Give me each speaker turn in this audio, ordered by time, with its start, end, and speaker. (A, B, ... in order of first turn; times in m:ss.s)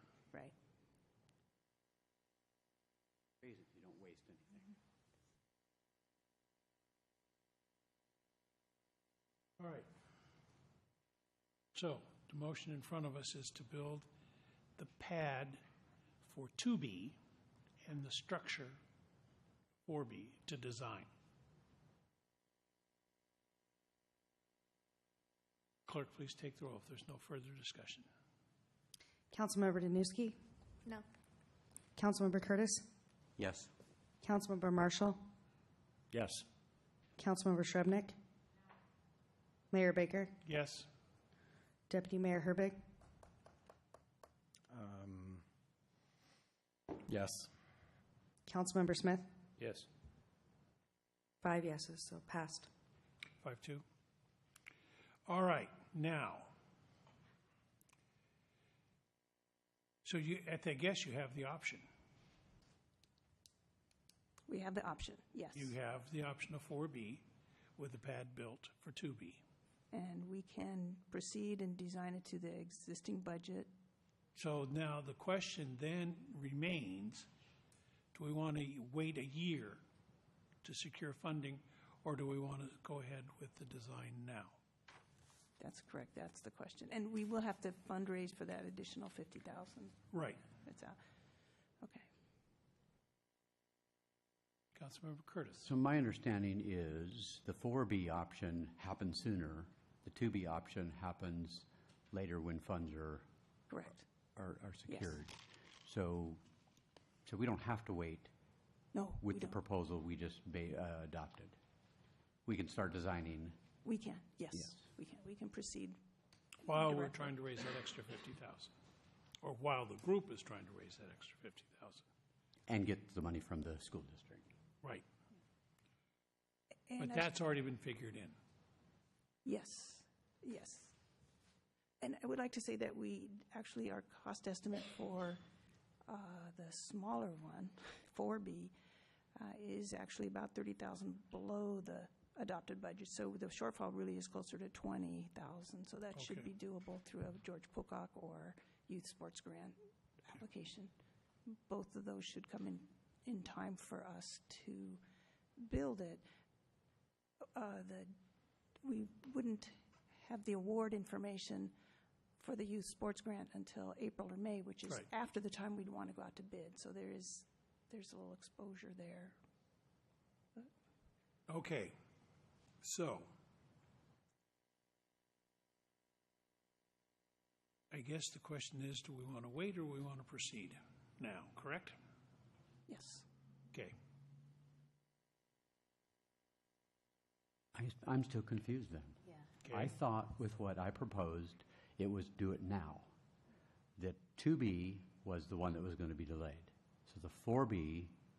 0:03.4-0:04.7 A
0:09.6-0:09.9 B
0:11.7-0:14.1 B
0:14.8-0:15.6 B
0:16.2-0:17.2 B
0:17.8-0:18.8 B
0:19.8-0:21.1 B
0:25.9-0:28.1 B
0:29.3-0:30.4 C
0:32.0-0:32.8 C
0:33.4-0:33.7 A
0:34.2-0:35.2 C
0:36.1-0:36.4 D
0:37.2-0:38.2 C
0:39.7-0:40.3 C
0:40.4-0:40.9 B
0:41.9-0:42.8 C
0:44.7-0:45.4 D
0:47.0-0:47.5 D
0:48.5-0:49.2 C
0:49.6-0:49.9 D
0:51.4-0:52.7 C
0:53.4-0:53.8 B
0:55.3-0:56.5 B
1:00.0-1:01.8 B
1:04.5-1:05.7 E
1:05.5-1:07.2 B
1:07.8-1:09.4 B
1:09.9-1:13.7 E
1:14.3-1:17.3 B
1:18.1-1:19.8 B
1:20.6-1:24.6 B
1:25.6-1:30.0 E
1:30.1-1:30.4 B
1:30.6-1:31.0 E
1:34.7-1:35.7 B
1:35.6-1:43.2 A
1:43.7-1:44.0 E
1:44.4-1:46.4 A
1:47.2-1:48.3 A
1:48.9-1:49.6 E
1:49.2-1:51.6 A
1:52.4-1:53.6 A
1:53.8-1:56.0 E
1:56.6-1:58.7 B
1:56.7-1:57.2 E
1:59.4-2:02.0 B
2:02.7-2:04.5 A
2:06.9-2:07.3 E
2:07.0-2:08.4 B
2:09.4-2:11.0 E
2:12.0-2:15.4 E
2:16.1-2:18.7 E
2:19.4-2:30.9 E
2:26.2-2:26.5 B
2:31.4-2:35.0 E
2:35.6-2:36.2 E
2:37.5-2:38.1 E
2:38.8-2:41.7 E
2:42.4-2:49.4 E
2:51.5-2:51.9 B
2:52.8-2:53.3 B
2:57.9-3:02.0 B
3:02.9-3:03.2 E
3:07.7-3:13.1 A
3:09.6-3:09.9 B
3:14.0-3:18.1 A